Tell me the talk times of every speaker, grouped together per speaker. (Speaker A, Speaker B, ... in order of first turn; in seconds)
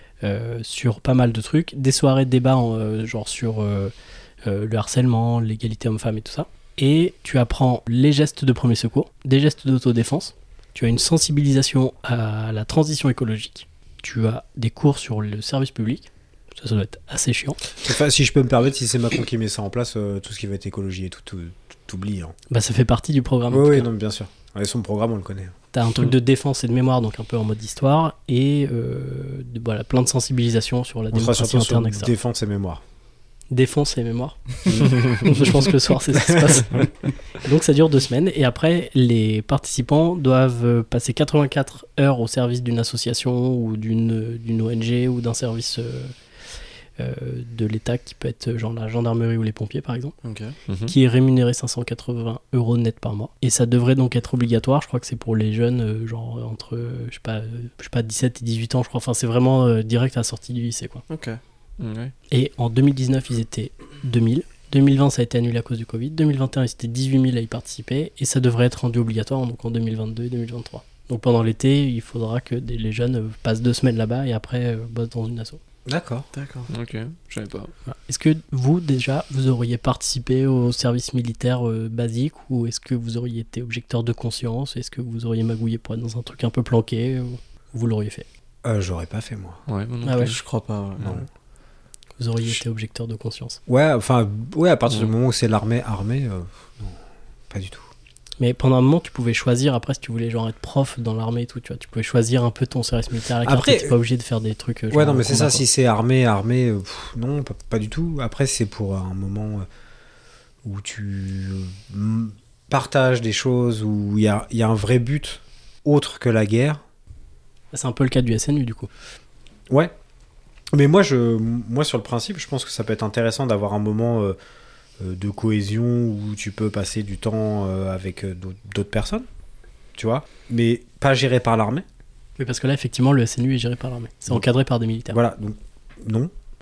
Speaker A: 0.2-3.9, 4.4-17.6, 22.5-23.9, 25.7-32.1, 33.5-46.1, 47.0-50.1, 50.9-61.0, 62.3-75.6, 77.9-88.2, 90.0-90.3, 92.2-93.6, 98.4-105.7, 117.7-118.9, 132.4-135.2
Speaker B: 17.8-22.3, 23.5-25.5, 31.1-32.8, 34.6-35.4, 36.3-36.6, 75.8-76.3, 88.6-89.6, 91.0-91.2, 93.7-97.0, 97.5-97.9, 103.4-104.0, 104.9-109.7, 110.6-116.8, 120.7-124.3, 125.0-129.2, 129.9-131.8, 135.1-136.3
Speaker C: 50.2-50.5, 61.1-61.4, 76.3-76.7, 90.2-91.2
Speaker D: 50.7-50.9, 61.8-62.1, 76.7-77.7, 89.7-90.4